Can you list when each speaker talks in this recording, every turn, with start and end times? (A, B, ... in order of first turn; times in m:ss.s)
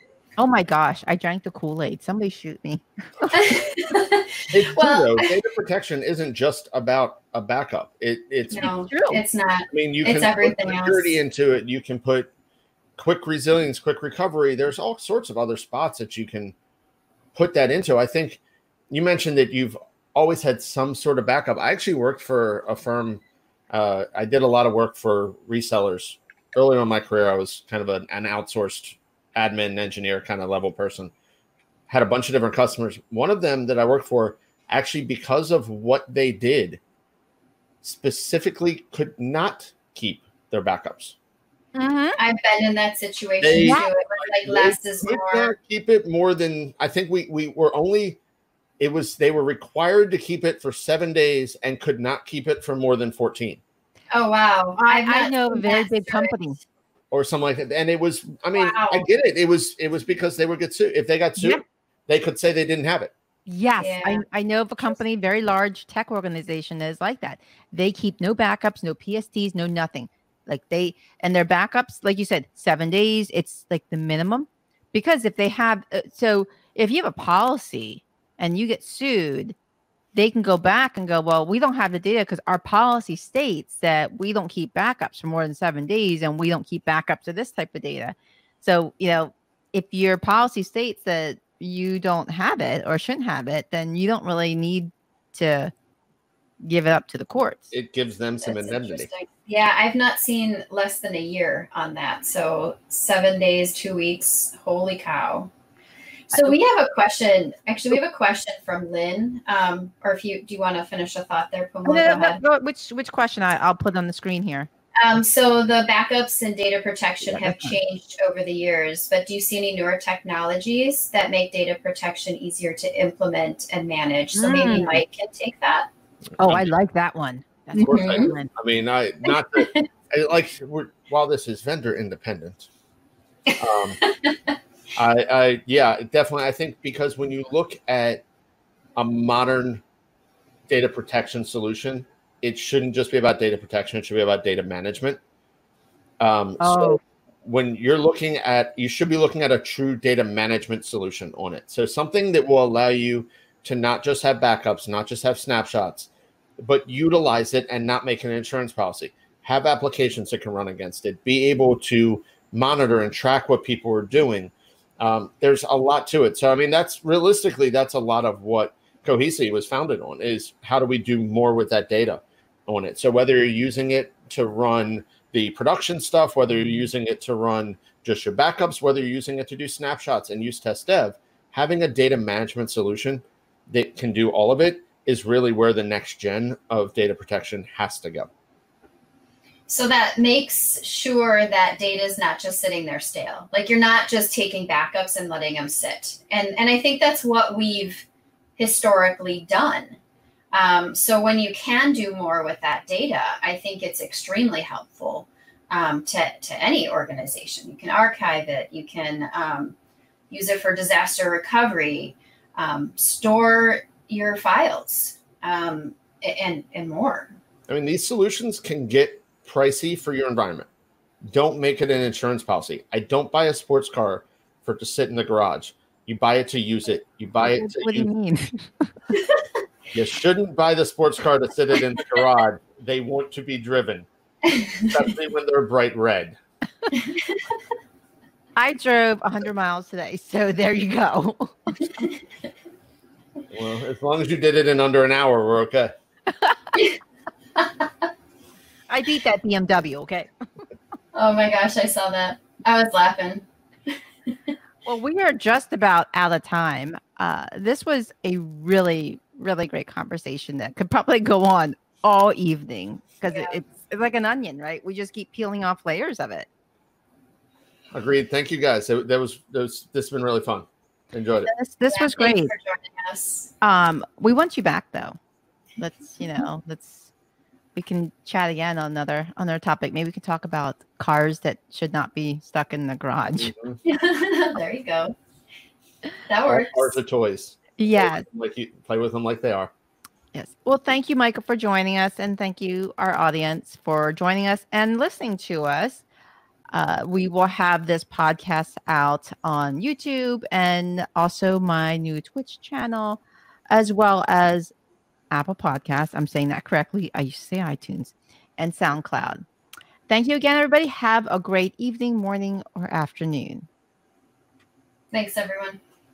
0:00.4-0:03.5 A
0:03.3-0:05.3 B
0:04.5-0:08.7 C
0:08.5-0:11.2 B
0:08.6-0:09.2 A
0:09.7-0:12.3 C
0:13.0-0:16.6 C
0:17.4-0:31.1 C
0:31.9-0:36.8 C
0:37.8-0:41.2 C
0:41.7-0:42.2 A
0:42.2-0:45.5 B
0:43.4-0:48.2 C
0:43.6-0:43.9 A
0:48.8-0:53.6 C
0:54.1-0:56.4 B
0:54.9-0:56.6 A
0:57.1-1:03.1 C
0:58.6-0:59.1 B
1:01.4-1:01.6 A
1:03.4-1:19.6 A
1:03.8-1:04.2 B
1:20.1-1:35.7 A
1:36.6-1:37.7 A
1:37.7-1:39.1 C
1:38.4-1:45.5 B
1:46.3-1:52.4 B
1:51.8-1:54.7 A
1:55.0-2:05.9 B
1:57.2-1:57.8 A
2:04.3-2:05.0 A
2:06.4-2:08.5 A
2:06.4-2:06.7 C
2:07.7-2:08.3 B
2:07.9-2:12.7 C
2:09.3-2:09.9 B
2:13.5-2:14.4 B
2:13.6-2:14.0 C
2:15.0-2:18.2 C
2:19.0-2:19.8 C
2:20.7-2:25.2 C
2:26.2-3:08.3 C
2:26.6-2:27.0 A
3:09.7-3:18.1 B
3:18.6-3:20.0 B
3:20.5-3:29.7 B
3:30.3-3:37.4 B
3:37.7-3:40.7 C
3:41.2-3:48.1 C
3:47.4-3:48.9 A
3:49.9-3:54.1 C
3:54.4-3:54.9 B
3:54.8-3:56.4 C
3:56.9-3:57.4 B
3:58.6-4:02.1 A
4:03.5-4:05.9 C
4:06.7-4:07.0 B
4:07.6-4:08.1 B
4:08.9-4:10.3 A
4:11.1-4:14.6 B
4:14.8-4:26.5 A
4:27.9-4:31.5 C
4:31.5-4:32.5 A
4:31.9-4:33.5 B
4:33.6-4:35.2 A
4:35.8-4:37.1 A
4:37.7-4:43.5 A
4:43.4-4:43.8 C
4:43.8-4:45.1 B
4:46.3-4:47.0 B
4:46.4-4:49.7 C
4:47.8-4:48.2 A
4:50.3-4:56.0 A
4:56.7-5:04.7 A
5:05.3-5:09.4 A
5:10.1-5:13.7 A
5:15.1-5:15.8 B